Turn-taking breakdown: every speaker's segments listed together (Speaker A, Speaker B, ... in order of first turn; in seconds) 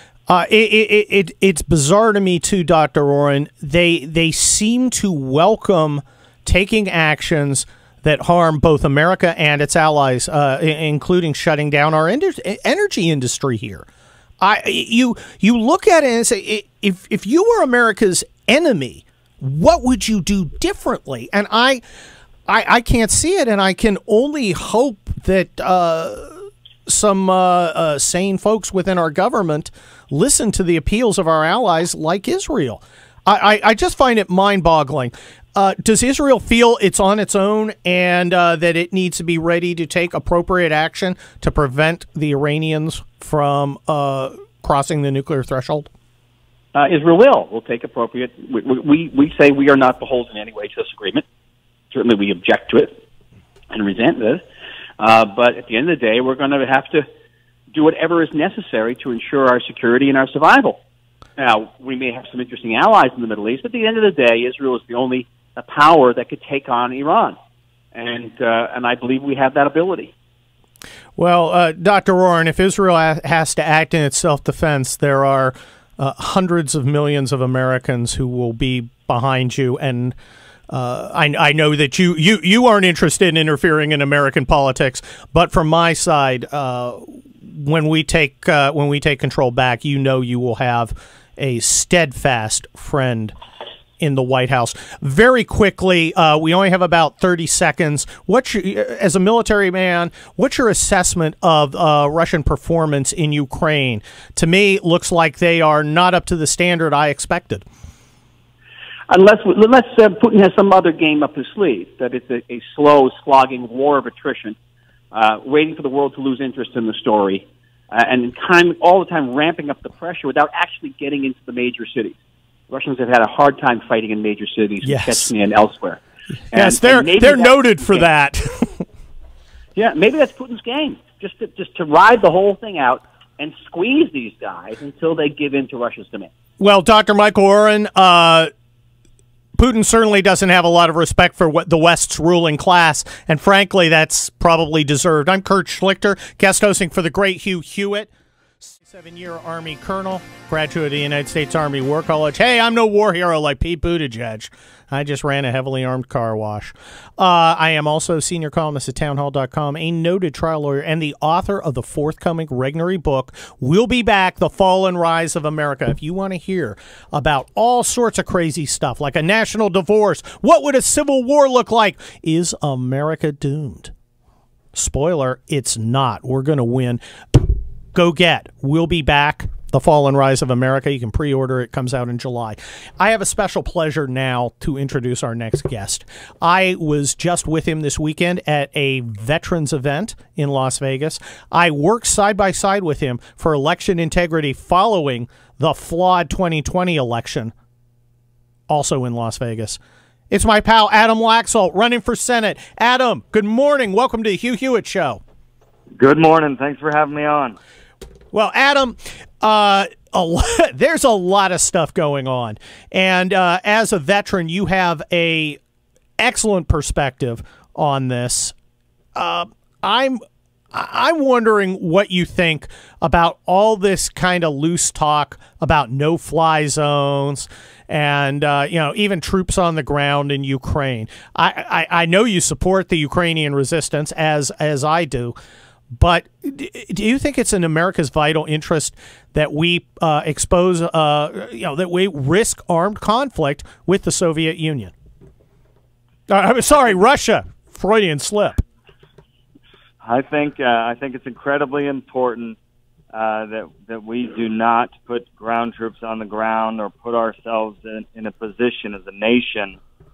Speaker A: 0.3-13.9, 14.4-21.8, 22.5-45.9, 71.2-80.2, 80.7-93.3, 94.0-107.7, 124.8-125.3, 126.5-128.8, 136.6-138.5, 139.6-148.1, 148.6-173.9, 174.8-197.5, 198.7-199.8, 200.3-205.2, 208.3-215.6, 216.2-218.5, 219.2-220.2, 220.7-235.3, 235.9-244.9, 246.3-248.6
Speaker B: 46.7-51.2, 51.9-53.0, 53.7-54.4, 55.0-57.1, 57.7-60.8, 61.4-67.4, 67.9-70.1, 109.1-114.6, 115.1-122.2, 122.7-128.1, 129.8-136.3
Speaker C: 206.0-207.6, 250.0-252.6, 253.1-259.8